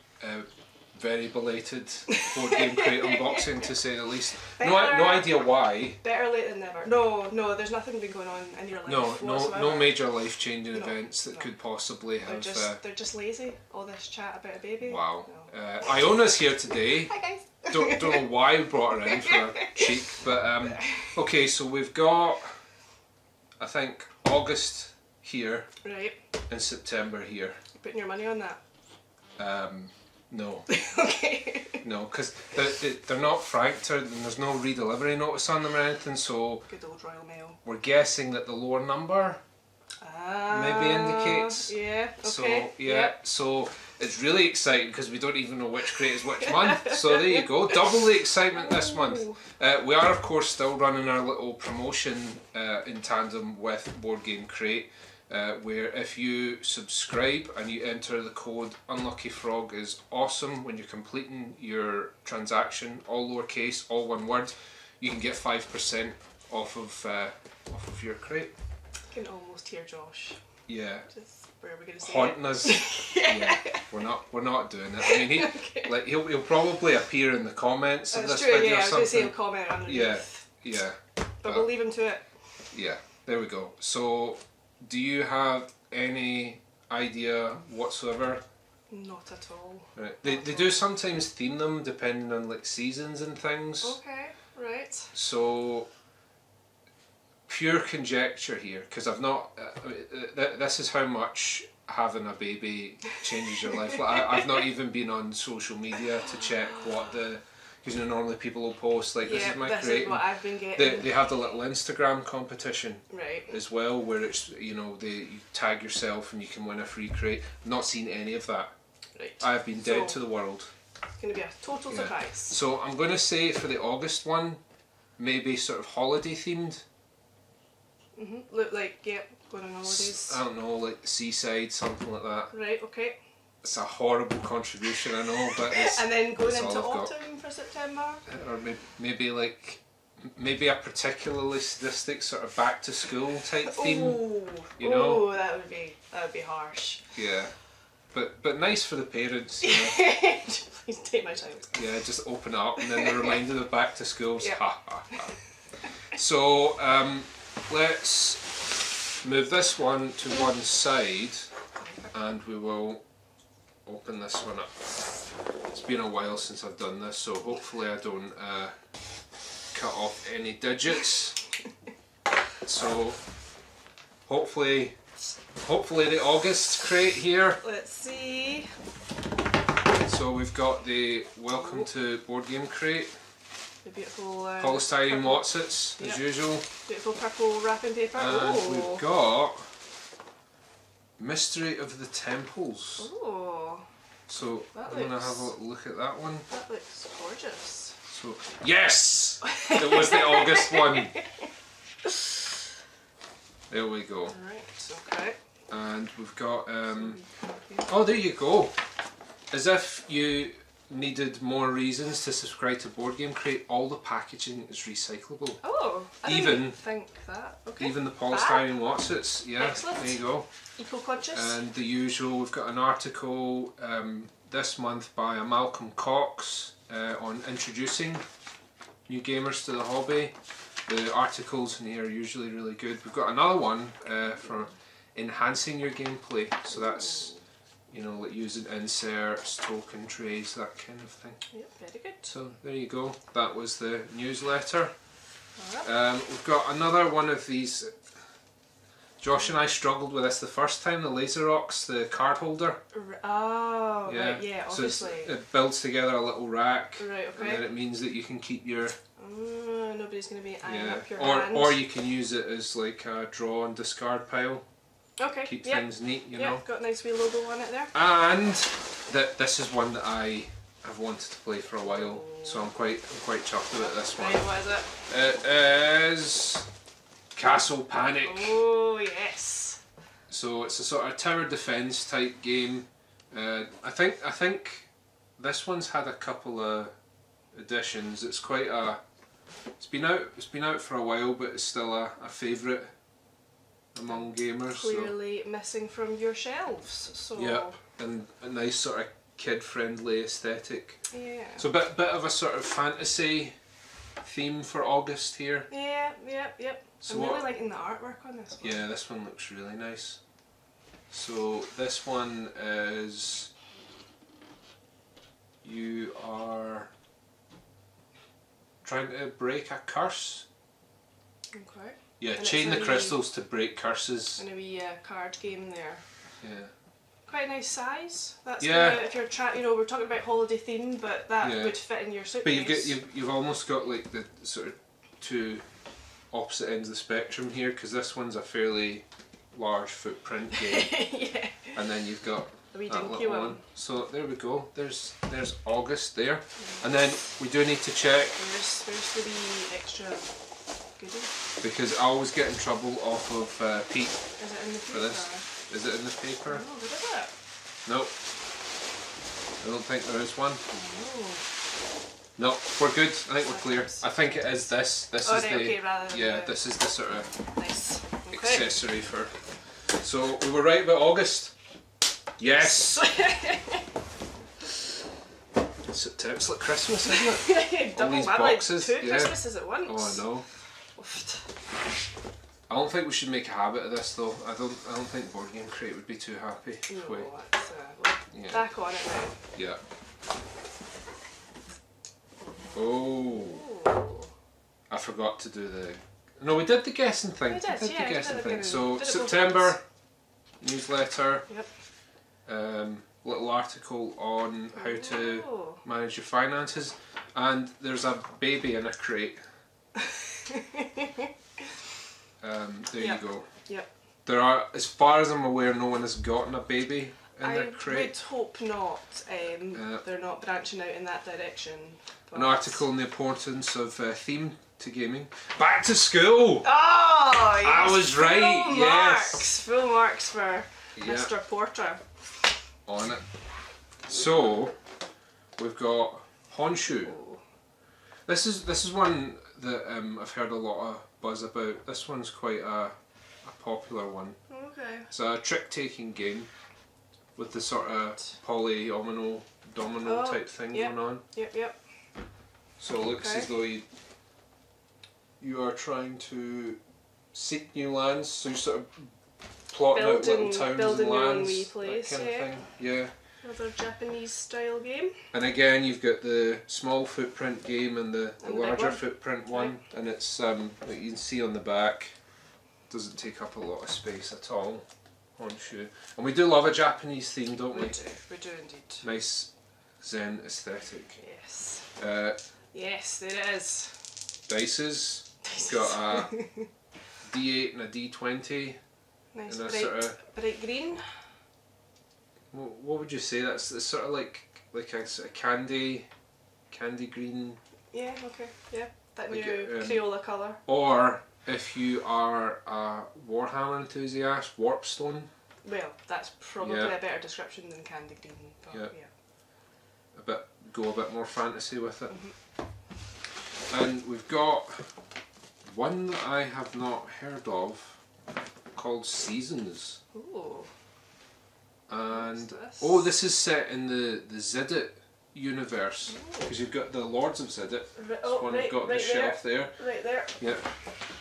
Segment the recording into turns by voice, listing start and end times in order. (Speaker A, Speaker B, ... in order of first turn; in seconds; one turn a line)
Speaker A: 0.2-6.0
Speaker B: 2.1-3.7
Speaker B: 4.5-5.5
Speaker B: 6.0-10.0
Speaker A: 8.8-12.8
Speaker B: 10.7-11.5
Speaker B: 12.2-16.2
Speaker A: 14.8-17.1
Speaker B: 16.9-21.1
Speaker A: 17.7-22.5
Speaker A: 23.6-25.7
Speaker B: 25.8-26.2
Speaker A: 26.5-27.6
Speaker B: 27.8-28.6
Speaker A: 29.4-30.7
Speaker B: 30.7-31.8
Speaker A: 31.8-36.7
Speaker B: 36.7-37.6
Speaker A: 37.6-39.4
Speaker B: 40.0-43.2
Speaker A: 40.5-68.5
Speaker B: 46.2-49.4
Speaker B: 69.1-70.4
Speaker A: 70.7-71.1
Speaker B: 71.1-73.9
Speaker A: 72.0-81.7
Speaker B: 75.0-75.9
Speaker B: 78.1-80.4
Speaker B: 81.4-82.2
Speaker A: 82.7-88.4
Speaker B: 88.9-90.8
Speaker A: 90.0-94.0
Speaker B: 93.8-95.1
Speaker A: 95.1-95.9
Speaker A: 97.5-118.7
Speaker B: 103.7-104.4
Speaker B: 106.5-106.8
Speaker B: 109.2-111.2
Speaker B: 113.1-113.5
Speaker B: 119.2-120.2
Speaker A: 119.4-120.7
Speaker B: 121.2-122.6
Speaker A: 121.9-124.6
Speaker A: 125.2-126.8
Speaker B: 128.1-130.4
Speaker A: 129.8-132.5
Speaker B: 132.5-133.2
Speaker A: 133.6-137.1
Speaker B: 135.5-138.2
Speaker A: 138.2-145.3
Speaker B: 143.6-147.0
Speaker A: 147.1-147.5
Speaker A: 148.1-150.1
Speaker B: 149.6-151.8
Speaker A: 151.7-155.3
Speaker B: 152.8-153.4
Speaker B: 155.1-155.4
Speaker A: 156.1-158.5
Speaker A: 159.2-161.5
Speaker B: 161.8-162.1
Speaker A: 162.1-163.0
Speaker A: 163.8-164.8
Speaker A: 165.7-168.7
Speaker A: 169.7-171.4
Speaker A: 172.6-173.2
Speaker A: 174.2-175.0
Speaker A: 175.6-177.6
Speaker B: 177.6-178.7
Speaker A: 179.9-183.1
Speaker B: 181.5-181.9
Speaker B: 183.8-186.2
Speaker A: 184.6-186.7
Speaker B: 186.8-189.1
Speaker A: 188.1-189.7
Speaker A: 191.2-193.1
Speaker B: 193.0-193.8
Speaker A: 194.3-196.5
Speaker B: 194.7-195.5
Speaker B: 196.5-197.9
Speaker A: 198.1-201.2
Speaker B: 199.4-201.4
Speaker A: 203.7-204.3
Speaker B: 204.2-205.4
Speaker A: 205.7-207.2
Speaker B: 206.9-207.9
Speaker A: 207.9-208.8
Speaker A: 209.5-215.6
Speaker B: 215.6-218.7
Speaker A: 216.2-216.8
Speaker A: 217.8-220.5
Speaker B: 219.5-220.2
Speaker B: 220.8-221.6
Speaker A: 221.3-228.2
Speaker A: 229.1-230.3
Speaker A: 230.8-237.3
Speaker B: 236.7-237.4
Speaker A: 237.9-241.4
Speaker B: 241.5-242.3
Speaker A: 242.2-244.9
Speaker B: 245.6-245.9
Speaker A: 245.8-247.9
Speaker A: 249.2-252.8
Speaker B: 252.9-255.3
Speaker A: 254.1-259.0
Speaker B: 257.0-257.6
Speaker B: 259.2-261.8
Speaker A: 260.6-264.6
Speaker B: 265.2-267.9
Speaker A: 265.4-266.6
Speaker A: 267.9-274.4
Speaker B: 271.8-272.7
Speaker B: 273.8-274.9
Speaker A: 275.1-276.7
Speaker A: 277.3-278.6
Speaker B: 278.2-279.8
Speaker A: 280.3-286.9
Speaker A: 287.5-289.0
Speaker A: 289.8-292.9
Speaker A: 293.9-295.1
Speaker B: 294.6-297.8
Speaker A: 297.4-301.0
Speaker B: 301.1-301.7
Speaker A: 301.6-303.5
Speaker A: 304.2-305.7
Speaker B: 305.7-308.8
Speaker A: 307.0-307.5
Speaker A: 308.6-310.2
Speaker A: 311.1-313.5
Speaker A: 315.6-316.9
Speaker A: 318.8-320.4
Speaker B: 321.5-323.2
Speaker A: 322.2-324.4
Speaker B: 324.4-326.0
Speaker A: 326.4-326.7
Speaker B: 327.3-333.0
Speaker A: 328.6-329.1
Speaker A: 331.4-331.8
Speaker A: 332.4-335.6
Speaker A: 336.3-341.1
Speaker B: 340.5-341.8
Speaker A: 341.7-348.4
Speaker B: 342.7-343.6
Speaker B: 346.6-347.0
Speaker B: 348.4-350.3
Speaker B: 351.0-351.3
Speaker A: 351.6-354.2
Speaker B: 354.4-355.4
Speaker A: 354.9-356.6
Speaker B: 356.4-357.3
Speaker A: 357.9-358.1
Speaker A: 359.6-360.6
Speaker B: 360.7-361.4
Speaker A: 362.4-367.3
Speaker B: 363.4-364.1
Speaker B: 365.2-366.7
Speaker B: 367.6-368.7
Speaker A: 368.3-369.3
Speaker A: 370.0-371.5
Speaker A: 372.4-373.1
Speaker B: 372.5-373.9
Speaker A: 375.9-380.4
Speaker B: 377.0-380.3
Speaker B: 380.9-381.4
Speaker A: 382.7-387.3
Speaker B: 386.9-389.4
Speaker A: 388.3-388.7
Speaker A: 389.5-389.8
Speaker A: 392.7-393.6
Speaker B: 393.1-394.3
Speaker A: 394.9-399.8
Speaker B: 397.5-399.8
Speaker A: 400.6-401.5
Speaker A: 402.4-409.4
Speaker B: 404.7-405.8
Speaker B: 410.0-411.3
Speaker A: 412.4-413.5
Speaker B: 412.9-413.9
Speaker A: 414.2-418.1
Speaker B: 417.4-422.8
Speaker A: 419.7-420.0
Speaker A: 422.3-426.7
Speaker B: 426.6-432.0
Speaker A: 427.6-429.5
Speaker A: 430.9-431.3
Speaker A: 432.9-433.2
Speaker A: 434.1-434.8
Speaker A: 435.6-437.2
Speaker B: 437.0-437.4
Speaker A: 438.2-444.4
Speaker B: 444.5-445.1
Speaker A: 445.1-446.5
Speaker A: 447.4-451.2
Speaker B: 450.0-451.8
Speaker A: 452.8-453.9
Speaker B: 453.1-453.5
Speaker A: 455.4-456.8
Speaker A: 457.3-459.1
Speaker A: 459.7-463.1
Speaker B: 459.9-462.6
Speaker B: 463.4-465.1
Speaker A: 465.3-472.1
Speaker B: 468.4-469.8
Speaker A: 472.9-474.9
Speaker A: 475.4-478.0
Speaker B: 477.7-479.0
Speaker A: 479.0-481.2
Speaker B: 481.2-481.9
Speaker A: 482.0-482.4
Speaker B: 482.7-484.1
Speaker A: 484.5-486.4
Speaker B: 485.4-486.7
Speaker A: 487.2-488.8
Speaker B: 489.3-491.0
Speaker A: 489.5-490.2
Speaker A: 492.5-496.1
Speaker A: 496.7-497.6
Speaker B: 497.9-500.6
Speaker A: 499.3-500.1
Speaker A: 500.6-505.3
Speaker B: 505.6-509.1
Speaker A: 506.6-507.0
Speaker A: 510.1-512.2
Speaker A: 513.7-514.9
Speaker A: 515.6-518.0
Speaker A: 518.7-520.0
Speaker B: 520.1-520.7
Speaker A: 521.9-529.8
Speaker B: 522.1-523.1
Speaker B: 526.1-526.5
Speaker B: 528.0-530.4
Speaker A: 530.4-530.7